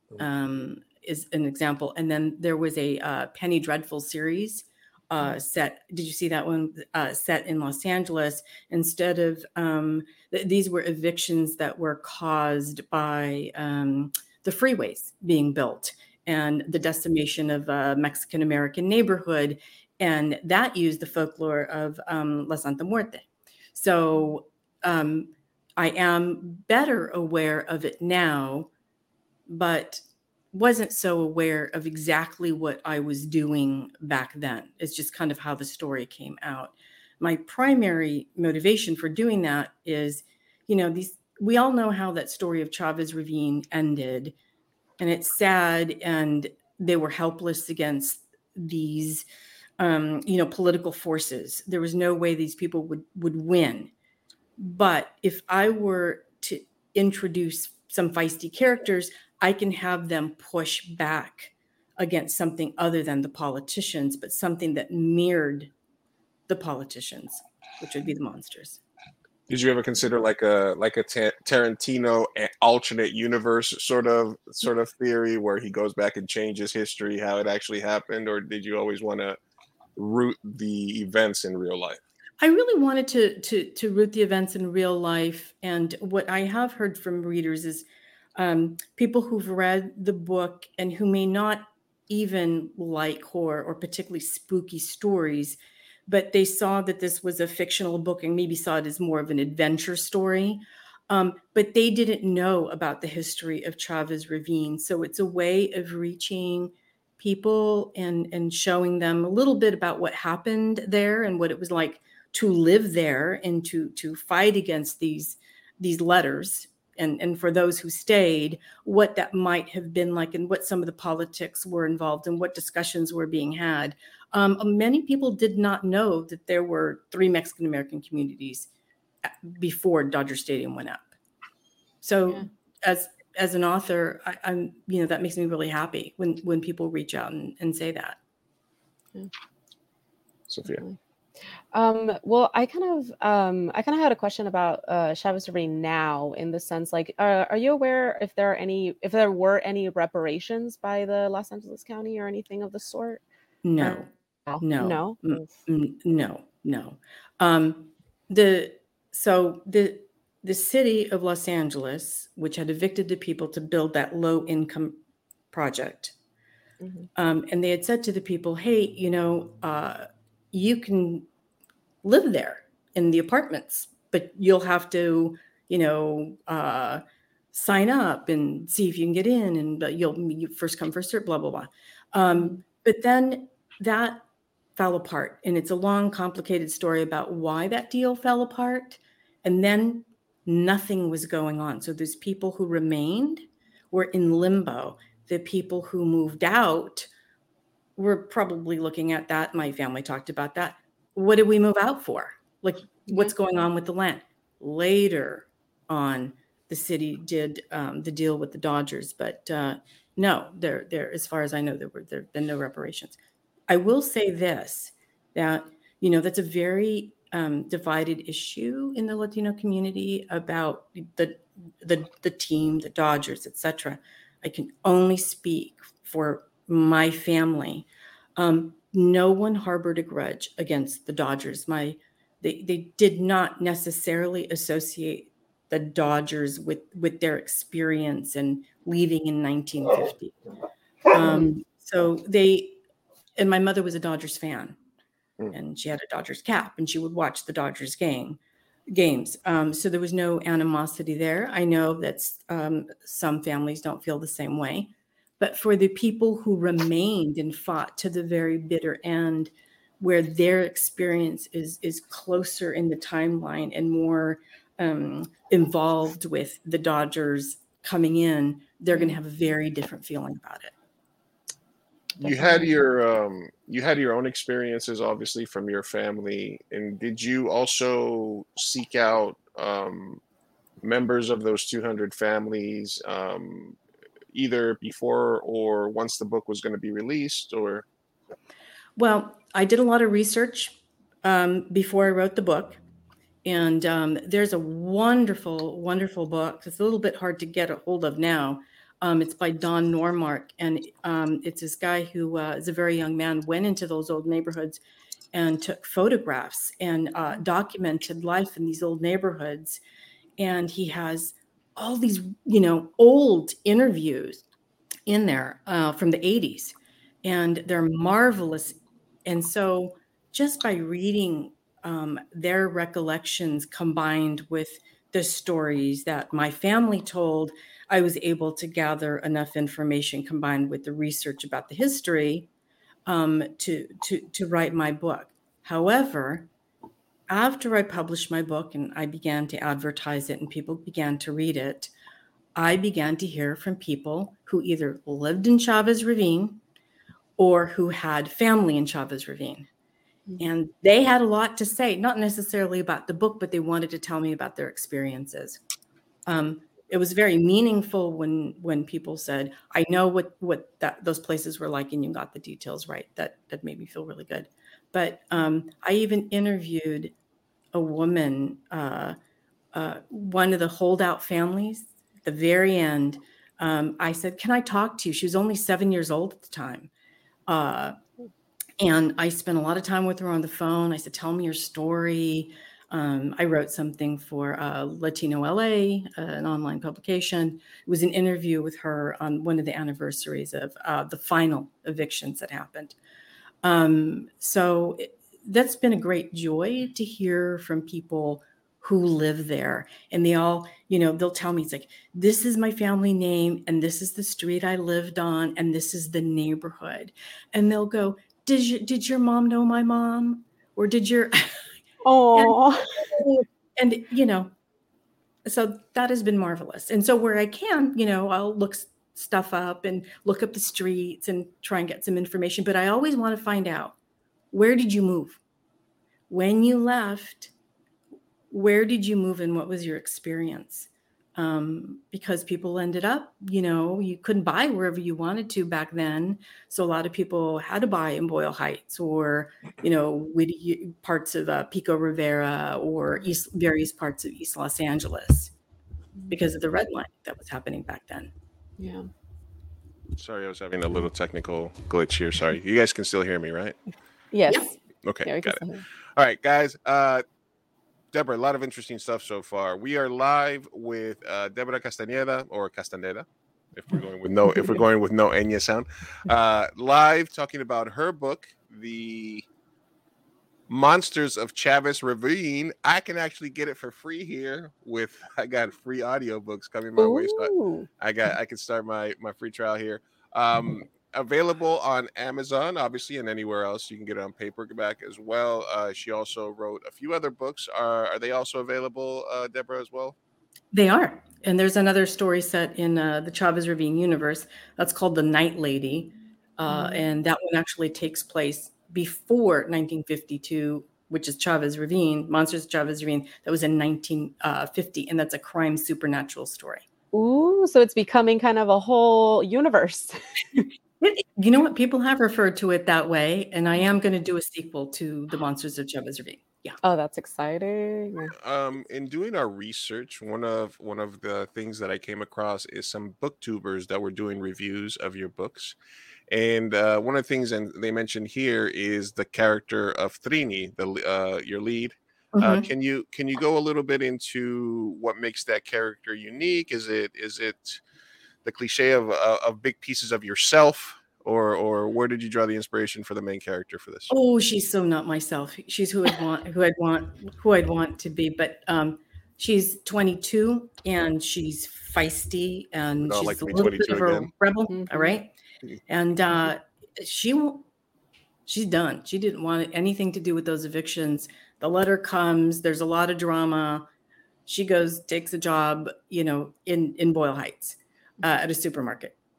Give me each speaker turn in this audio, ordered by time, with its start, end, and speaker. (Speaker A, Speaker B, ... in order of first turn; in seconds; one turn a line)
Speaker A: 0.2-28.7
Speaker A: 29.5-44.3
Speaker A: 45.0-49.2
Speaker A: 49.8-53.9
Speaker A: 54.6-65.7
Speaker A: 66.5-68.8
Speaker B: 69.5-79.4
Speaker B: 80.0-82.0
Speaker A: 82.4-87.8
Speaker A: 88.3-128.7
Speaker A: 129.2-131.1
Speaker A: 132.0-138.2
Speaker B: 140.5-140.8
Speaker C: 141.7-153.2
Speaker A: 153.6-154.1
Speaker C: 153.8-155.6
Speaker A: 154.6-165.0
Speaker A: 165.5-166.1
Speaker C: 166.8-167.1
Speaker A: 167.2-171.3
Speaker A: 172.0-184.2
Speaker A: 184.8-197.1
Speaker A: 197.9-213.2
Speaker A: 213.7-240.3
Speaker A: 241.1-242.8
Speaker C: 241.2-241.5
Speaker A: 243.3-244.8
Speaker A: 245.5-270.7
Speaker C: 268.9-269.2
Speaker B: 272.2-280.2
Speaker B: 280.8-283.8
Speaker B: 284.3-287.8
Speaker A: 288.9-292.8
Speaker A: 293.4-304.8
Speaker A: 305.3-309.8
Speaker A: 310.4-314.4
Speaker A: 315.1-332.5
Speaker A: 333.1-336.5
Speaker A: 337.3-341.9
Speaker A: 342.5-346.6
Speaker A: 347.4-349.7
Speaker A: 350.4-355.6
Speaker A: 356.3-367.1
Speaker A: 367.7-369.1
Speaker A: 369.7-376.9
Speaker A: 377.5-377.9
Speaker A: 378.8-392.9
Speaker A: 393.6-411.7
Speaker C: 412.0-412.8
Speaker A: 412.3-414.5
Speaker A: 415.4-423.9
Speaker A: 424.5-425.4
Speaker A: 426.3-427.5
Speaker A: 428.5-445.5
Speaker A: 446.3-448.3
Speaker C: 448.8-449.1
Speaker B: 450.2-453.8
Speaker C: 454.3-454.7
Speaker A: 454.5-454.7
Speaker B: 455.0-455.6
Speaker C: 455.2-455.8
Speaker B: 456.1-457.2
Speaker B: 458.1-469.4
Speaker B: 470.7-490.1
Speaker C: 477.0-477.9
Speaker A: 490.7-506.8
Speaker C: 496.7-497.0
Speaker C: 507.1-510.6
Speaker A: 511.0-516.8
Speaker C: 516.8-518.3
Speaker B: 518.3-525.8
Speaker B: 526.3-537.8
Speaker A: 532.4-532.6
Speaker B: 538.4-544.1
Speaker A: 544.1-555.3
Speaker B: 553.0-554.3
Speaker C: 554.7-555.1
Speaker A: 555.9-557.6
Speaker A: 558.5-563.9
Speaker A: 564.5-569.1